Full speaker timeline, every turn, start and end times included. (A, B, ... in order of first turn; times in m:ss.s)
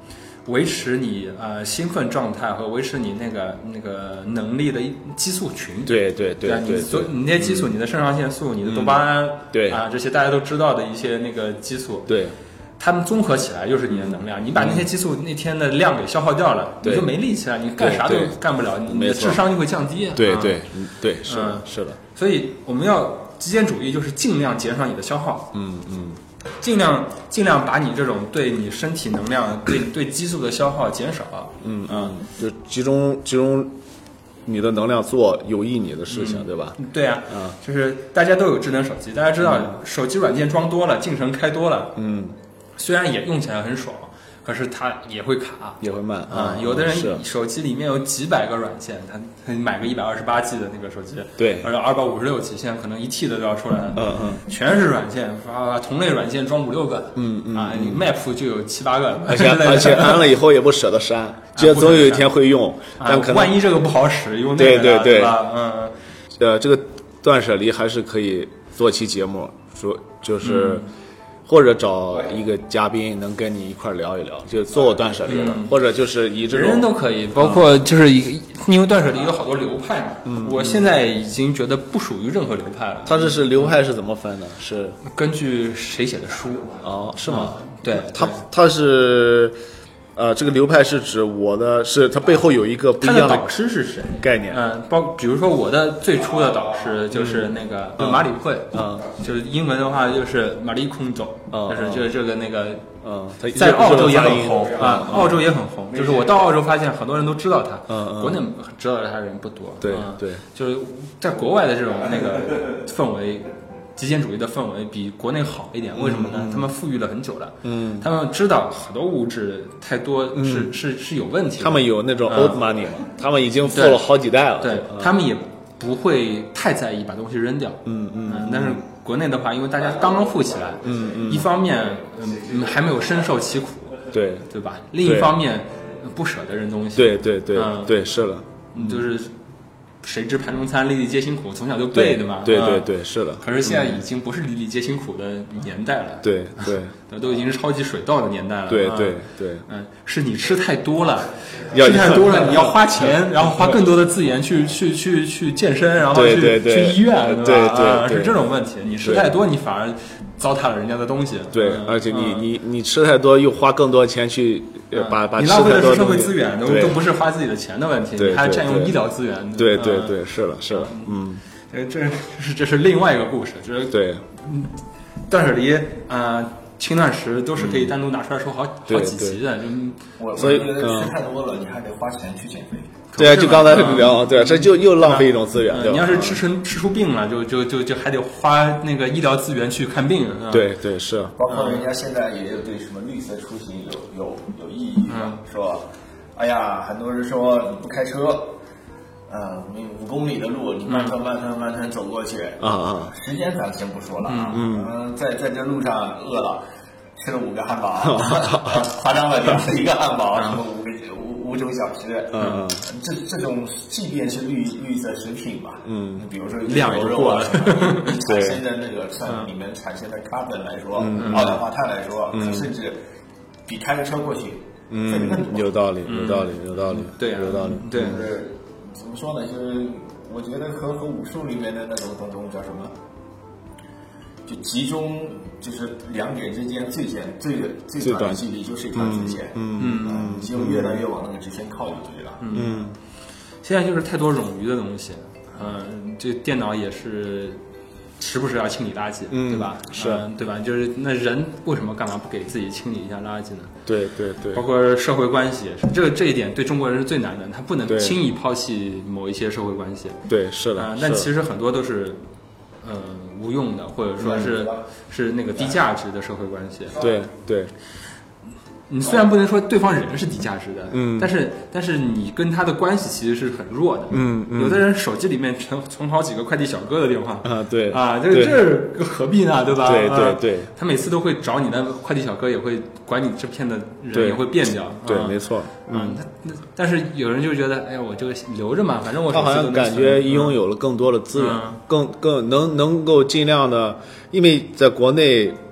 0:00.5-0:12.1 A
0:05.9-0:07.7 B
0:08.6-0:09.8 B
0:12.1-0:12.4 B
0:12.8-0:20.6 A
0:13.9-0:14.9 B
0:16.8-0:17.2 B
0:17.8-0:19.4 B
0:20.2-0:22.0 B
0:21.2-0:25.6 A
0:25.5-0:26.2 B
0:26.6-0:32.2 A
0:31.6-0:33.7 B
0:34.5-0:36.8 B
0:36.1-0:42.0 A
0:37.3-0:37.6 B
0:39.4-0:39.8 B
0:42.0-0:42.4 B
0:42.8-1:00.3 A
0:45.8-0:47.2 B
0:51.4-0:51.7 B
0:54.0-0:54.4 B
0:57.2-0:58.1 B
0:59.3-1:03.6 B
1:01.5-1:02.3 A
1:03.0-1:06.0 A
1:04.6-1:05.4 B
1:06.4-1:10.9 B
1:10.4-1:10.9 A
1:11.5-1:17.7 B
1:15.2-1:15.8 A
1:16.5-1:23.7 A
1:20.2-1:20.9 B
1:23.0-1:25.0 B
1:25.0-1:28.4 A
1:26.8-1:29.6 B
1:30.2-1:33.5 B
1:33.0-1:42.9 A
1:34.2-1:34.6 B
1:37.1-1:39.2 B
1:41.5-1:42.1 B
1:43.0-1:45.4 B
1:43.5-2:02.7 A
1:47.9-1:48.5 B
1:49.8-1:50.4 B
1:56.0-1:56.7 B
1:57.6-1:58.1 B
2:00.3-2:00.8 B
2:01.6-2:05.2 B
2:03.6-2:04.1 A
2:04.6-2:18.0 A
2:07.9-2:08.8 B
2:10.8-2:11.5 B
2:14.1-2:14.5 B
2:15.0-2:15.4 B
2:17.0-2:19.1 B
2:18.7-2:19.4 A
2:20.0-2:42.5 A
2:21.9-2:24.0 B
2:26.2-2:26.9 B
2:28.7-2:29.6 B
2:31.7-2:32.7 B
2:33.4-2:33.8 B
2:36.1-2:38.4 B
2:39.0-2:39.4 B
2:41.5-2:47.0 B
2:44.9-2:51.2 A
2:48.2-2:49.0 B
2:49.6-2:51.4 B
2:51.7-3:00.6 A
2:53.9-2:54.2 B
2:57.6-2:58.0 B
2:58.9-2:59.4 B
3:00.2-3:02.9 C
3:00.4-3:01.1 B
3:03.1-3:10.7 A
3:03.2-3:06.4 B
3:10.5-3:11.5 B
3:11.4-3:18.6 C
3:11.5-3:11.8 A
3:15.1-3:15.4 A
3:19.3-3:26.6 C
3:20.9-3:21.2 A
3:22.6-3:23.1 B
3:24.3-3:24.7 A
3:24.5-3:24.9 B
3:27.2-3:43.0 C
3:28.0-3:28.9 B
3:30.3-3:30.6 A
3:32.3-3:32.9 B
3:32.4-3:32.6 A
3:35.8-3:36.3 B
3:36.7-3:38.2 A
3:38.2-3:38.6 B
3:39.2-3:39.5 A
3:41.0-3:41.6 B
3:41.2-3:41.6 A
3:42.3-3:42.7 B
3:43.7-3:45.8 C
3:44.9-3:48.3 B
3:46.0-3:48.3 A
3:48.0-3:52.9 C
3:54.5-4:02.4 C
3:58.0-4:01.1 B
3:59.8-4:00.4 A
4:02.4-4:02.9 A
4:02.5-4:03.0 B
4:03.6-4:07.6 A
4:08.2-4:13.7 A
4:09.3-4:10.2 B
4:13.9-4:14.6 B
4:14.5-4:20.2 A
4:17.9-4:18.2 B
4:20.3-4:21.3 B
4:20.8-4:22.2 A
4:22.8-4:27.0 A
4:24.2-4:24.6 B
4:27.0-4:27.7 B
4:28.9-4:50.6 A
4:30.9-4:31.3 B
4:34.1-4:34.9 B
4:37.4-4:38.8 B
4:39.8-4:40.7 B
4:44.1-4:46.2 B
4:49.3-4:55.6 B
4:51.3-4:51.8 A